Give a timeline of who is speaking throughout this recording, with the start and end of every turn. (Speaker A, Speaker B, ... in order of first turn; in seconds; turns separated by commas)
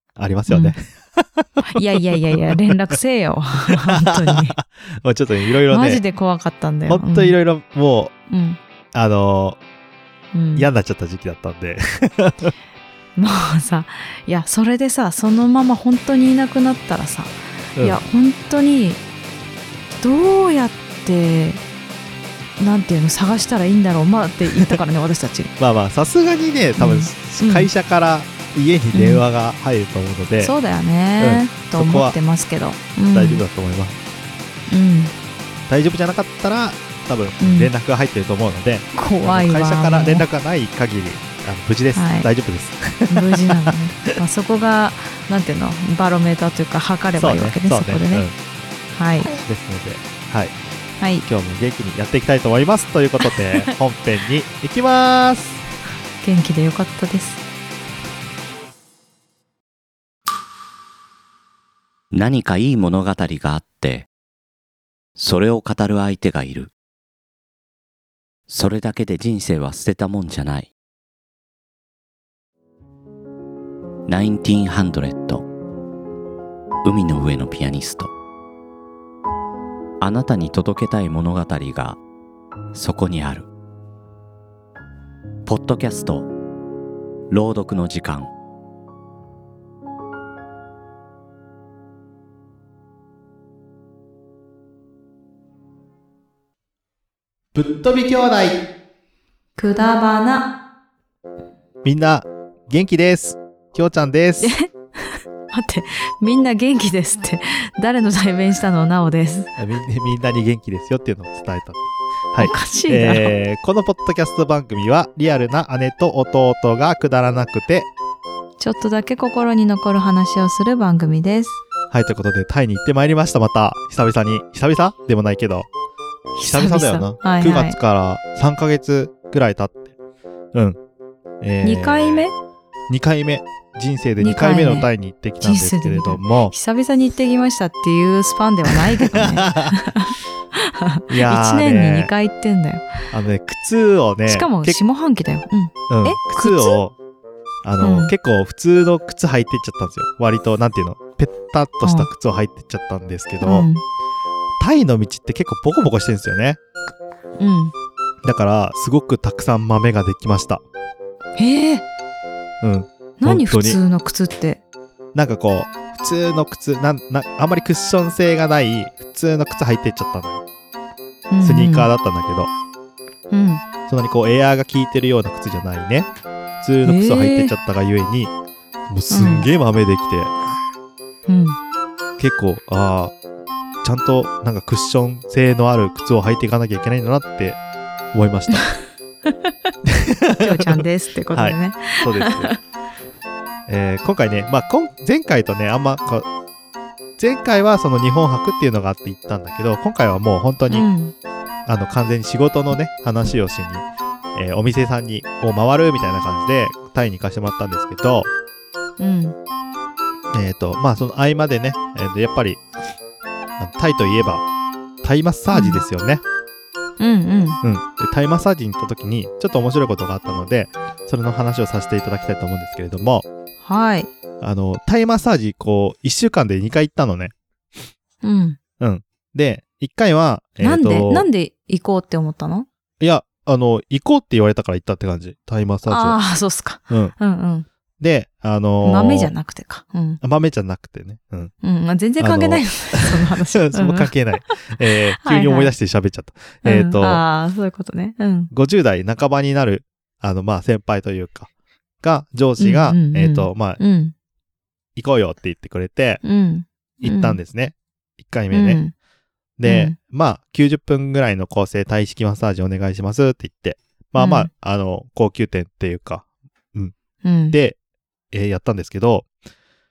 Speaker A: 0.2-2.7, Speaker B: 0.5-0.8, Speaker B: 1.7-4.6, Speaker A: 3.9-6.0, Speaker B: 5.7-7.4, Speaker A: 6.9-8.1, Speaker B: 8.3-8.6, Speaker A: 8.9-9.6, Speaker B: 10.3-10.7, Speaker A: 10.6-12.5, Speaker B: 13.2-19.0, Speaker A: 17.8-18.0, Speaker B: 20.0-21.6, Speaker B: 22.6-25.5, Speaker A: 25.6-30.5, Speaker B: 26.8-27.7, Speaker B: 28.9-29.2, Speaker B: 30.4-33.4, Speaker A: 31.2-32.2, Speaker A: 33.1-34.0, Speaker B: 34.7-35.1, Speaker A: 35.7-43.7, Speaker B: 37.4-37.7, Speaker B: 39.0-40.3, Speaker B: 41.9-42.3, Speaker B: 43.1-48.3, Speaker A: 47.2-48.4, Speaker B: 48.9-49.3, Speaker A: 49.4-50.5, Speaker B: 51.0-51.2, Speaker A: 51.2-55.6, Speaker B: 56.2-57.4, Speaker C: 62.1-64.1, Speaker C: 65.2-66.7, Speaker C: 68.5-70.7, Speaker C: 74.1-75.5, Speaker C: 76.8-78.1, Speaker C: 80.0-82.0, Speaker C: 82.7-83.5, Speaker C: 85.5-86.3, Speaker C: 87.3-88.3, Speaker A: 97.5-98.6, Speaker B: 99.6-100.5, Speaker A: 101.8-104.5, Speaker B: 104.4-109.5, Speaker A: 109.6-117.9, Speaker B: 112.4-113.3, Speaker B: 118.6-121.6, Speaker A: 121.9-125.7, Speaker B: 126.3-127.8, Speaker A: 126.4-129.9, Speaker A: 131.4-132.3, Speaker B: 131.6-132.3, Speaker A: 132.9-136.5, Speaker B: 134.2-134.9, Speaker B: 135.4-142.9, Speaker A: 138.9-139.8, Speaker A: 141.1-142.1, Speaker A: 143.1-144.8, Speaker B: 144.3-146.8, Speaker A: 145.9-146.9, Speaker A: 147.6-153.7, Speaker B: 147.8-148.1, Speaker B: 151.8-152.1, Speaker B: 153.4-153.8, Speaker A: 154.6-156.6, Speaker B: 157.4-157.7, Speaker A: 158.2-160.6, Speaker B: 161.4-161.8, Speaker A: 162.6-163.8, Speaker B: 163.2-164.6, Speaker A: 165.1-170.4, Speaker B: 171.3-171.9, Speaker A: 171.4-172.5, Speaker B: 173.3-173.6, Speaker A: 173.9-178.3, Speaker B: 176.8-177.5, Speaker A: 178.9-180.3, Speaker B: 179.1-179.5, Speaker B: 181.3-181.6, Speaker A: 182.2-183.1, Speaker A: 183.8-187.6, Speaker A: 188.1-188.7, Speaker A: 189.9-192.5, Speaker B: 190.4-192.5, Speaker A: 193.7-196.3, Speaker A: 197.2-200.9, Speaker B: 200.7-201.1, Speaker A: 201.7-208.3, Speaker B: 209.0-209.4, Speaker A: 210.3-212.6, Speaker A: 213.6-214.4, Speaker A: 215.0-216.2, Speaker B: 215.5-215.8, Speaker B: 217.0-217.6, Speaker A: 217.6-223.2, Speaker B: 223.7-224.1, Speaker A: 224.4-227.3, Speaker B: 228.2-228.6, Speaker A: 228.8-231.3, Speaker B: 230.6-232.7, Speaker A: 233.0-236.2, Speaker B: 235.9-237.7, Speaker A: 236.9-237.2, Speaker A: 238.0-239.3, Speaker B: 238.8-240.2, Speaker A: 240.2-241.5, Speaker B: 241.6-244.7, Speaker A: 242.2-247.2, Speaker B: 245.2-245.7, Speaker B: 246.6-248.5, Speaker A: 248.5-251.5, Speaker A: 252.0-253.8, Speaker B: 252.6-254.1, Speaker A: 255.0-256.2, Speaker B: 256.2-257.4, Speaker A: 257.0-258.8, Speaker B: 258.5-258.9, Speaker A: 259.6-266.9, Speaker B: 259.6-259.9, Speaker B: 264.2-264.5, Speaker B: 267.2-267.6, Speaker A: 267.5-267.8, Speaker A: 268.3-269.3